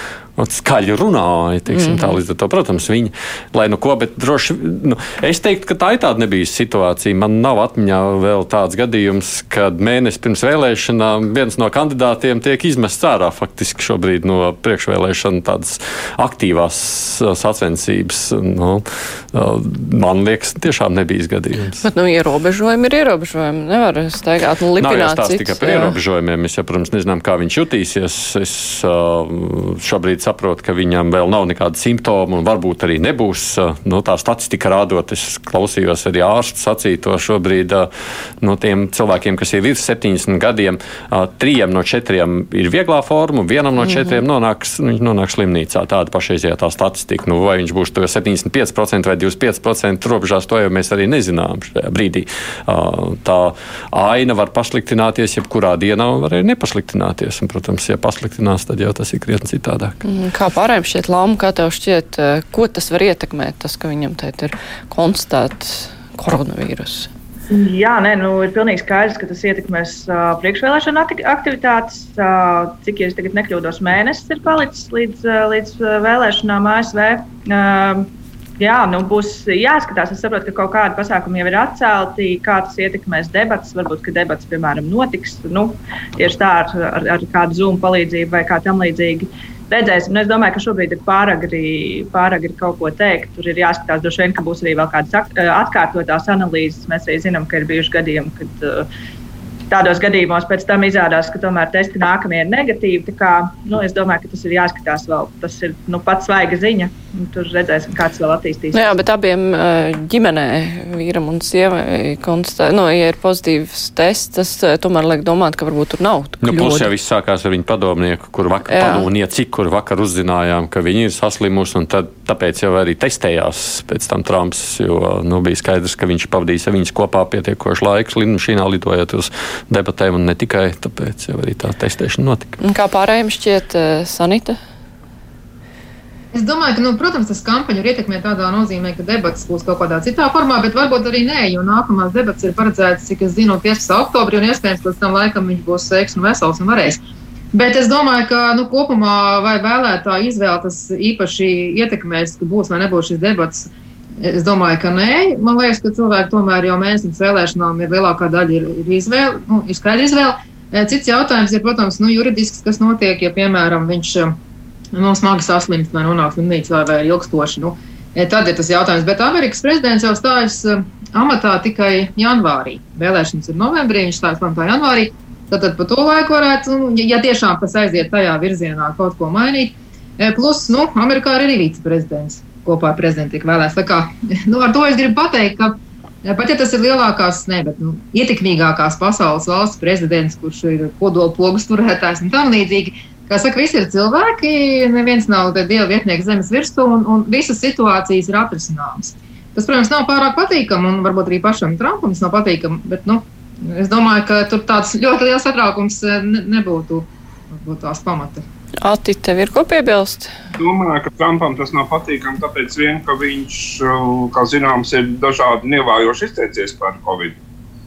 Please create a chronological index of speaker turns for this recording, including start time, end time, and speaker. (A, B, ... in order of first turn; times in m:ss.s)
0:00.4-0:21.8 A
0:01.7-0:02.2 B
0:21.8-0:26.0 B
0:24.8-0:37.9 A
0:38.4-1:00.0 A
1:00.0-1:07.1 B
1:07.5-1:38.9 C
1:39.7-1:49.0 C
1:48.7-1:56.9 B
1:56.4-2:12.6 A
1:58.7-1:59.1 B
2:12.6-2:14.6 B
2:16.3-2:27.0 D
2:27.5-2:44.4 D
2:44.9-3:28.4 D
3:28.8-3:30.3 B
3:30.6-3:37.4 E